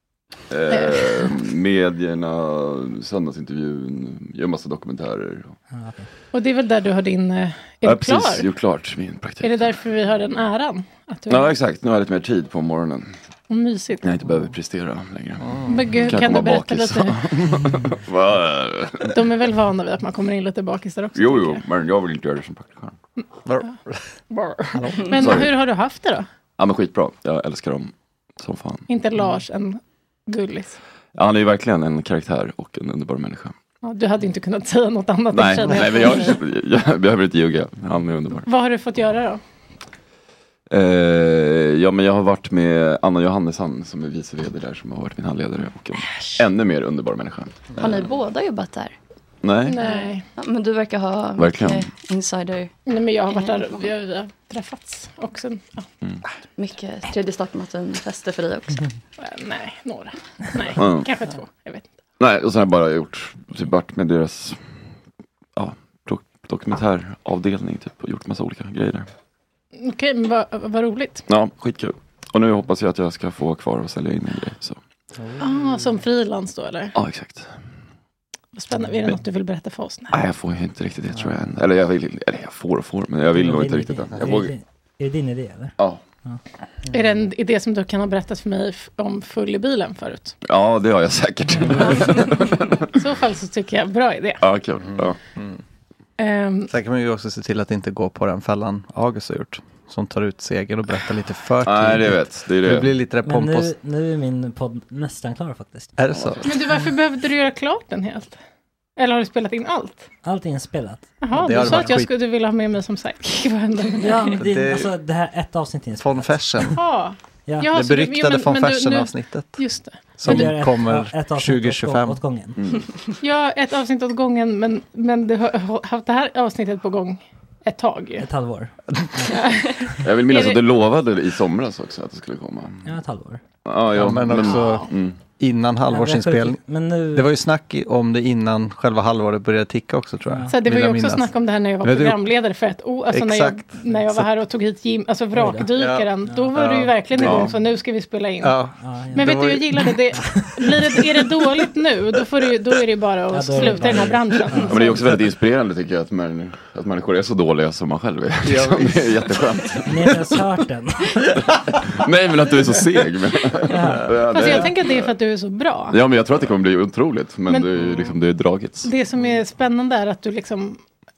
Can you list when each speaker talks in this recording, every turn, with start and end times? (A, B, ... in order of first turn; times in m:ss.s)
0:00.5-0:05.5 A
0:00.7-0:01.1 B
0:05.7-0:06.1 C
0:06.3-0:08.5 B
0:07.8-0:09.7 A
0:09.4-0:11.5 B
0:11.3-0:13.2 A
0:13.5-0:14.1 B
0:14.0-0:19.2 A
0:15.4-0:15.8 D
0:15.7-0:17.2 B
0:19.1-0:21.6 B
0:21.2-0:23.0 A
0:23.4-0:24.0 D
0:24.3-0:26.3 B
0:25.1-0:25.5 A
0:26.6-0:28.8 A
0:28.9-0:30.8 B
0:31.1-0:33.5 A
0:33.8-0:36.4 B
0:35.3-0:38.5 A
0:38.4-0:39.4 B
0:40.7-0:48.0 A
0:47.8-0:48.9 E
0:49.4-0:49.8 A
0:49.7-0:50.2 B
0:49.7-0:52.7 E
0:51.4-0:51.8 A
0:52.8-0:55.8 B
0:53.3-0:53.9 E
0:56.6-0:58.8 E
0:59.2-1:01.9 B
1:00.8-1:01.1 A
1:02.2-1:04.6 A
1:05.6-1:09.1 A
1:09.8-1:11.2 B
1:11.3-1:14.8 A
1:15.2-1:15.8 D
1:15.4-1:16.9 B
1:16.9-1:17.5 A
1:18.5-1:20.1 B
1:20.1-1:24.5 A
1:21.1-1:21.4 D
1:23.3-1:25.7 C
1:26.9-1:30.3 B
1:30.4-1:32.9 A
1:32.9-1:34.4 B
1:34.4-1:35.2 A
1:34.9-1:35.6 D
1:36.2-1:36.7 B
1:36.7-1:43.7 D
1:41.6-1:42.9 A
1:43.2-1:45.9 C
1:46.0-1:46.4 D
1:46.2-1:46.4 A
1:46.4-1:48.4 B
1:49.0-1:50.1 B
1:50.2-1:52.0 C
1:51.2-1:54.4 B
1:51.3-1:52.1 D
1:54.0-1:56.7 C
1:54.4-1:54.9 D
1:56.0-1:56.8 D
1:56.8-2:00.5 B
1:57.4-1:57.7 C
1:57.6-1:59.6 D
2:00.2-2:02.2 D
2:00.2-2:02.6 C
2:02.6-2:02.9 A
2:03.2-2:08.2 B
2:08.2-2:09.5 C
2:09.3-2:10.6 B
2:10.0-2:12.9 A
2:12.8-2:13.4 C
2:13.6-2:15.2 A
2:13.9-2:14.8 D
2:14.4-2:14.8 B
2:15.4-2:16.6 D
2:15.9-2:17.3 C
2:17.1-2:21.3 D
2:20.3-2:20.6 C
2:20.5-2:28.5 B
2:21.8-2:22.2 D
2:23.1-2:24.3 D
2:25.4-2:25.6 C
2:25.7-2:27.5 D
2:27.2-2:27.5 A
2:28.4-2:29.8 D
2:28.8-2:29.3 C
2:29.1-2:35.0 B
2:30.2-2:30.6 C
2:33.3-2:34.8 C
2:34.7-2:40.2 A
2:38.4-2:39.1 D
2:39.8-2:41.1 C
2:41.9-2:45.1 A
2:43.7-2:44.1 C
2:44.3-2:46.0 B
2:45.9-2:48.9 A
2:48.8-2:50.8 B